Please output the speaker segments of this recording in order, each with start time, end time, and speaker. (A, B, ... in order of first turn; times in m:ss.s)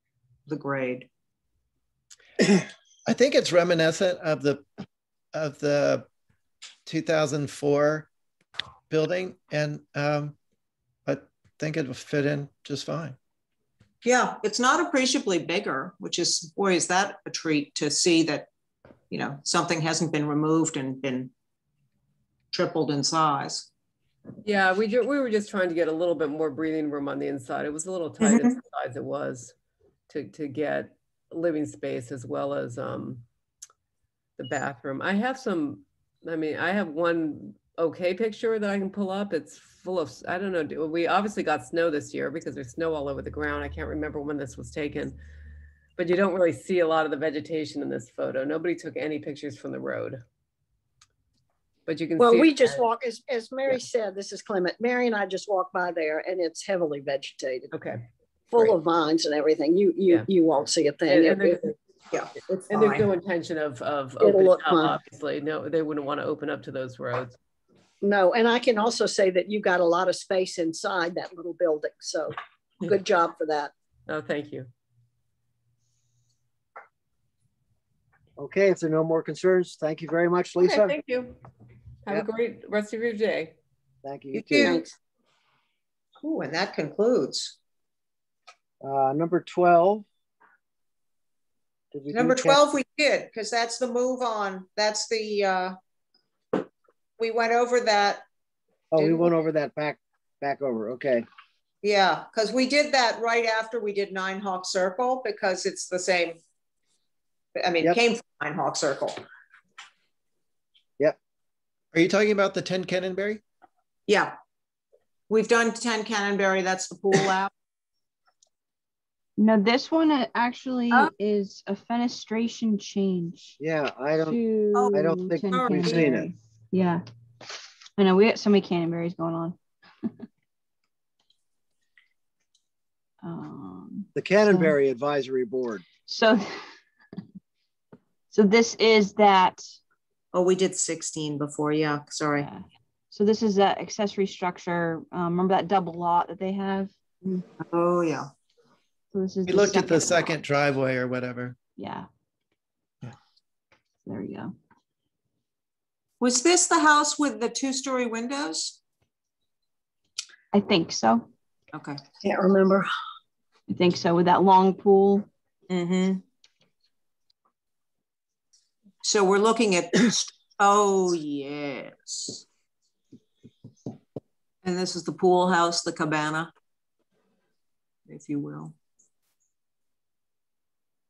0:00.5-0:01.1 A
0:03.1-0:04.7 B
0:05.3-0:06.1 B
0:06.9-0:08.1 B
0:08.9-0:10.4 B
0:11.1-0:13.2 B
0:14.0-0:18.5 A
0:19.1-0:21.3 A
0:22.5-0:23.7 A
0:24.4-0:29.5 C
0:28.2-0:28.6 A
0:30.1-0:33.2 C
0:34.4-0:45.2 C
0:46.0-0:50.2 C
0:51.9-0:52.8 C
0:52.2-0:57.7 D
0:57.7-0:58.0 C
0:58.5-1:01.7 D
1:01.1-1:01.8 C
1:02.1-1:03.1 A
1:02.7-1:07.4 C
1:04.2-1:05.0 D
1:08.0-1:13.7 D
1:14.1-1:14.7 C
1:18.4-1:21.0 E
1:20.6-1:21.4 C
1:22.1-1:23.6 C
1:24.0-1:24.8 E
1:24.3-1:24.8 A
1:24.6-1:24.9 D
1:26.2-1:27.6 A
1:28.8-1:30.0 E
1:31.9-1:32.6 E
1:32.1-1:35.8 A
1:37.2-1:38.2 A
1:38.9-1:41.2 E
1:39.0-1:39.3 A
1:41.8-1:46.4 A
1:47.6-1:49.2 A
1:51.9-1:53.4 B
1:54.1-1:54.4 A
1:55.3-1:57.5 A
1:59.4-2:03.6 F
2:03.6-2:04.4 E
2:04.2-2:07.0 F
2:04.7-2:06.1 A
2:04.9-2:06.3 E
2:08.0-2:10.1 F
2:13.2-2:14.8 F
2:14.2-2:15.8 E
2:16.1-2:16.7 F
2:18.3-2:19.6 F
2:20.3-2:22.5 A
2:22.4-2:27.5 F
2:27.6-2:28.3 A
2:29.1-2:30.3 F
2:29.5-2:31.6 B
2:31.8-2:32.1 F
2:34.0-2:34.5 F
2:36.2-2:38.8 A
2:40.5-2:41.3 F
2:41.7-2:42.0 A
2:42.2-2:42.9 D
2:43.7-2:45.3 F
2:45.7-2:46.2 A
2:49.0-2:52.4 A
2:54.6-2:56.5 A
2:58.1-2:58.8 A